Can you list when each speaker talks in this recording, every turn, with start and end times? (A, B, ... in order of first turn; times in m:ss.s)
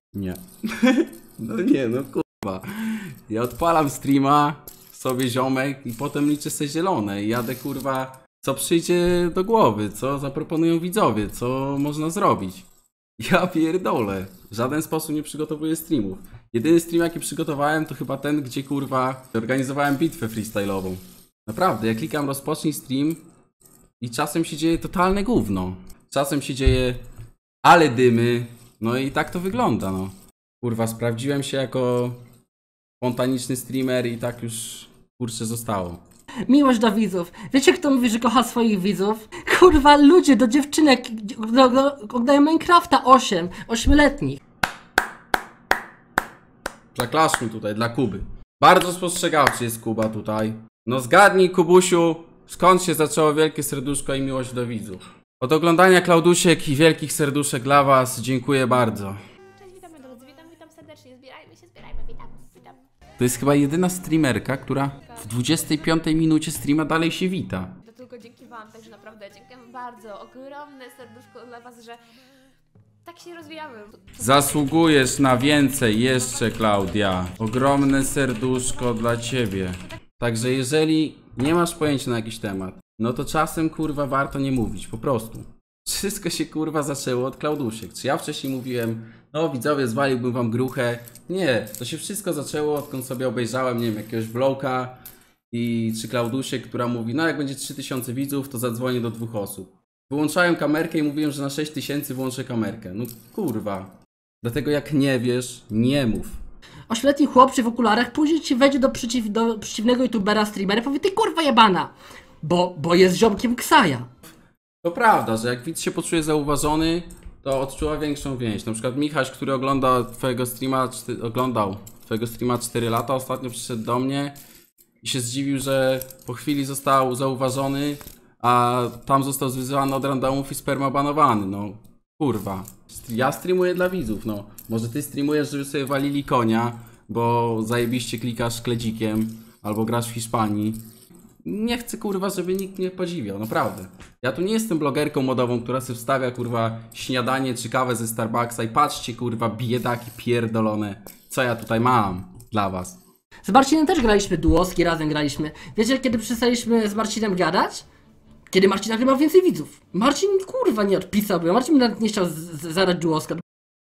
0:00.1-0:12.7 A
0:13.2-0:23.2 A
0:24.0-0:27.0 A
0:27.6-0:32.2 A
0:33.0-0:36.0 A
0:36.5-0:44.4 B
0:46.9-0:59.2 A
0:59.6-1:02.8 C
1:03.2-1:07.8 A
1:07.8-1:12.0 C
1:13.1-1:14.7 C
1:14.2-1:46.4 A
1:46.9-1:51.9 B
1:52.4-1:54.1 B
1:54.8-2:04.4 A
2:05.0-2:20.8 A
2:21.4-2:33.0 A
2:33.4-2:37.8 B
2:38.5-2:43.4 B